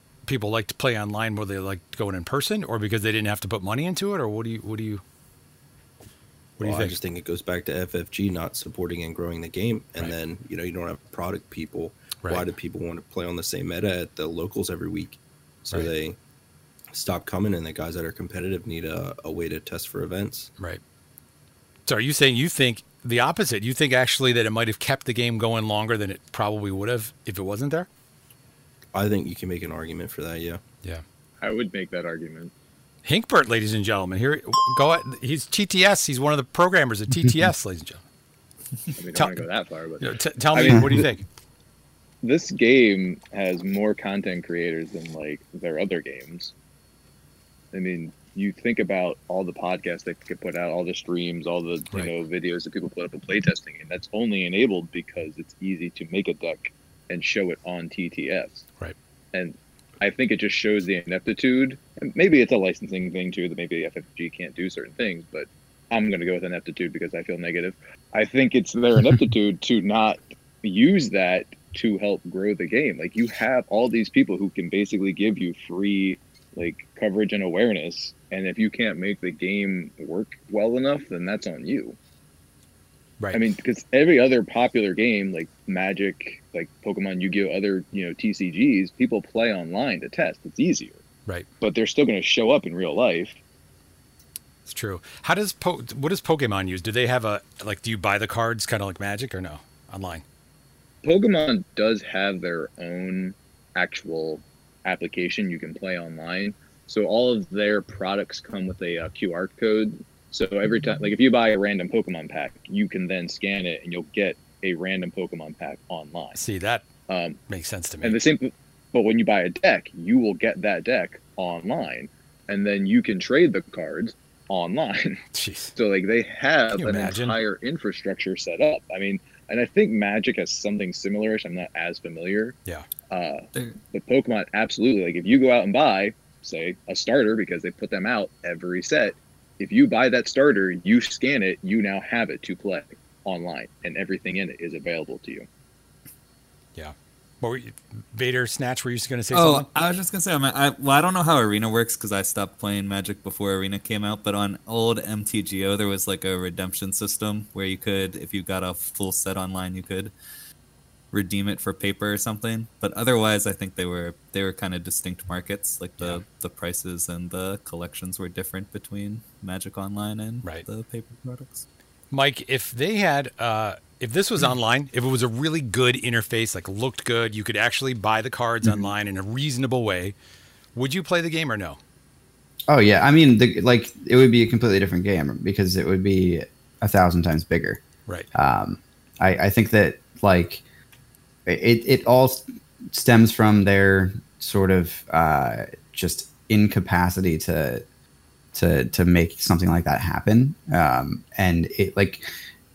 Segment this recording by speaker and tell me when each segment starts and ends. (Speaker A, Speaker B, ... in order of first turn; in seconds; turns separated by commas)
Speaker A: 0.3-5.0, Speaker A: 6.6-7.0, Speaker B: 6.6-16.2, Speaker A: 12.2-12.5, Speaker B: 16.9-20.5, Speaker A: 21.9-27.9, Speaker B: 28.9-30.6, Speaker C: 31.4-32.5, Speaker A: 33.0-38.0, Speaker C: 39.0-41.0, Speaker A: 40.0-41.2, Speaker C: 42.2-46.5, Speaker C: 47.7-58.6, Speaker C: 59.3-82.0, Speaker C: 83.3-91.0, Speaker C: 91.6-93.4, Speaker A: 94.7-100.2, Speaker C: 101.0-116.4, Speaker A: 116.3-116.8, Speaker C: 117.1-117.4, Speaker A: 117.5-118.2, Speaker C: 118.0-125.2, Speaker A: 125.3-125.7, Speaker C: 125.8-132.6, Speaker A: 126.7-127.4, Speaker C: 133.1-145.4, Speaker A: 146.7-149.7, Speaker D: 149.3-160.1, Speaker D: 161.1-171.7, Speaker A: 166.0-166.2, Speaker A: 172.1-180.2, Speaker E: 178.6-178.9, Speaker A: 180.7-181.8, Speaker E: 182.7-187.8, Speaker E: 188.3-190.6, Speaker E: 191.4-197.8, Speaker E: 198.5-202.2